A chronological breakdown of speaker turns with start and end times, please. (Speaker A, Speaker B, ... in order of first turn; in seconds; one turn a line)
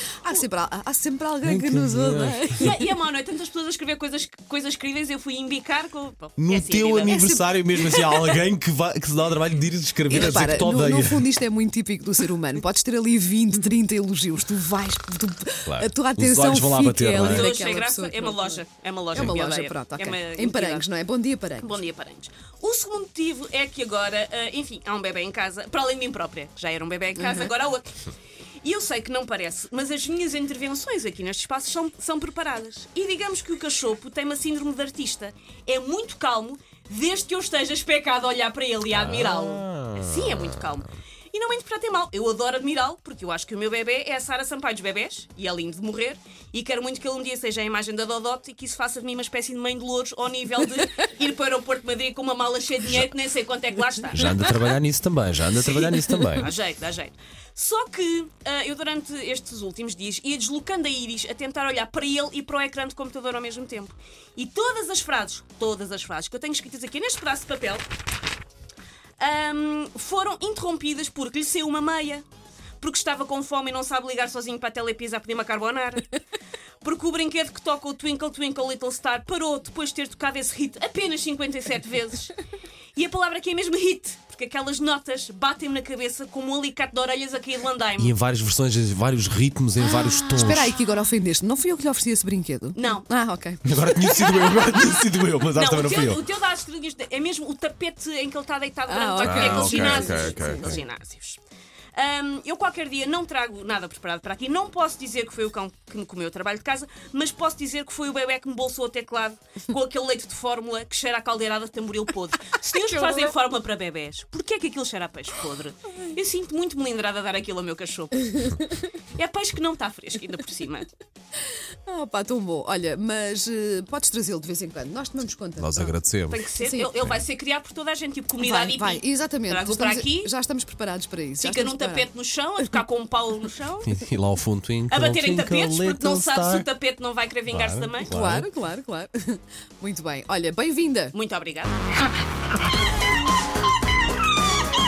Speaker A: 0.2-2.8
Speaker B: 1.4-2.7
Speaker C: 2.5-8.4
Speaker B: 6.4-11.3
Speaker A: 7.1-7.4
Speaker A: 10.1-21.8
Speaker B: 15.7-17.5
Speaker C: 17.1-20.9
Speaker C: 21.6-27.9
Speaker A: 27.2-27.5
Speaker C: 28.6-54.5
Speaker B: 38.9-40.7
Speaker B: 54.1-56.5
Speaker C: 56.0-67.9
Speaker C: 69.2-72.2
Speaker C: 72.8-76.2
Speaker C: 76.8-82.3
Speaker C: 83.0-88.2
Speaker B: 88.0-90.7
Speaker A: 90.3-93.6
Speaker C: 92.8-93.1
Speaker B: 93.6-96.2
Speaker C: 94.2-94.9
Speaker C: 95.5-101.4
Speaker A: 98.9-100.7
Speaker B: 99.2-100.8
Speaker C: 102.0-118.6
Speaker A: 112.8-113.3
Speaker C: 119.2-120.9
Speaker A: 121.9-126.0
Speaker B: 125.6-126.4
Speaker C: 126.3-130.3
Speaker A: 126.6-126.9
Speaker A: 128.4-132.1
Speaker C: 131.4-133.9
Speaker B: 133.8-136.7
Speaker C: 134.9-138.1
Speaker B: 137.5-138.5
Speaker A: 138.0-141.2
Speaker C: 141.1-141.8